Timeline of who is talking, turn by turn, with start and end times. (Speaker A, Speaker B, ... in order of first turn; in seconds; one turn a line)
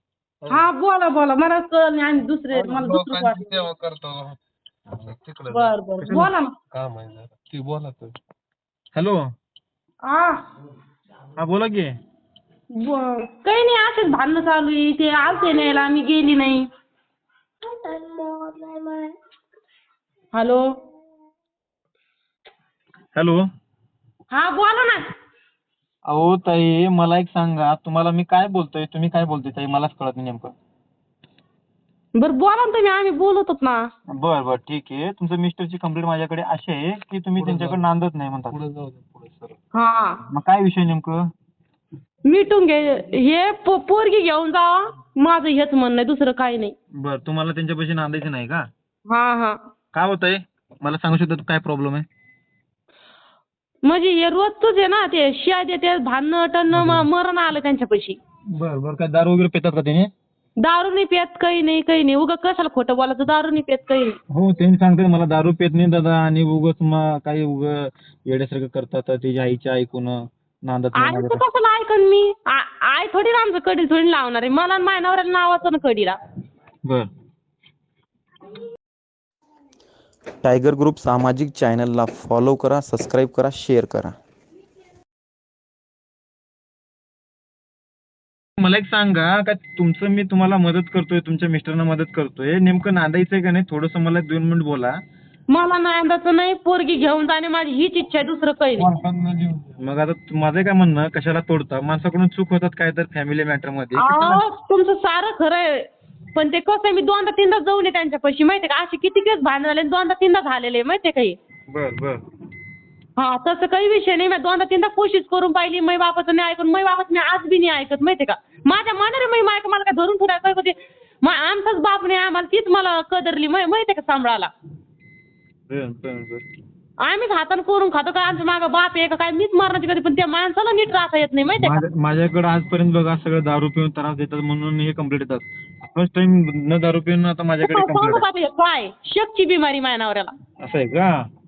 Speaker A: 0.5-3.5
Speaker B: 3.1-4.1
Speaker B: 5.0-5.6
Speaker A: 5.5-6.5
Speaker B: 6.8-8.0
Speaker C: 8.9-9.3
Speaker A: 10.1-10.4
Speaker C: 11.4-11.9
Speaker A: 12.8-16.7
Speaker A: 17.9-19.0
Speaker A: 20.3-20.7
Speaker C: 23.2-23.4
Speaker A: 24.3-25.1
Speaker C: 26.1-30.5
Speaker A: 32.2-33.9
Speaker C: 34.1-38.6
Speaker A: 39.7-40.2
Speaker C: 40.3-41.2
Speaker A: 42.3-46.8
Speaker C: 47.0-48.7
Speaker A: 49.1-49.6
Speaker C: 49.9-52.0
Speaker A: 53.9-58.2
Speaker C: 56.7-57.1
Speaker C: 58.5-60.1
Speaker A: 60.6-64.2
Speaker C: 64.3-71.4
Speaker A: 71.0-76.2
Speaker D: 80.4-84.2
Speaker C: 88.6-95.0
Speaker A: 95.5-98.9
Speaker C: 98.8-104.4
Speaker A: 104.0-111.4
Speaker C: 111.7-112.2
Speaker A: 113.2-124.5
Speaker C: 125.7-126.4
Speaker A: 127.0-131.8
Speaker C: 131.6-138.2
Speaker A: 137.6-140.3
Speaker C: 140.6-141.3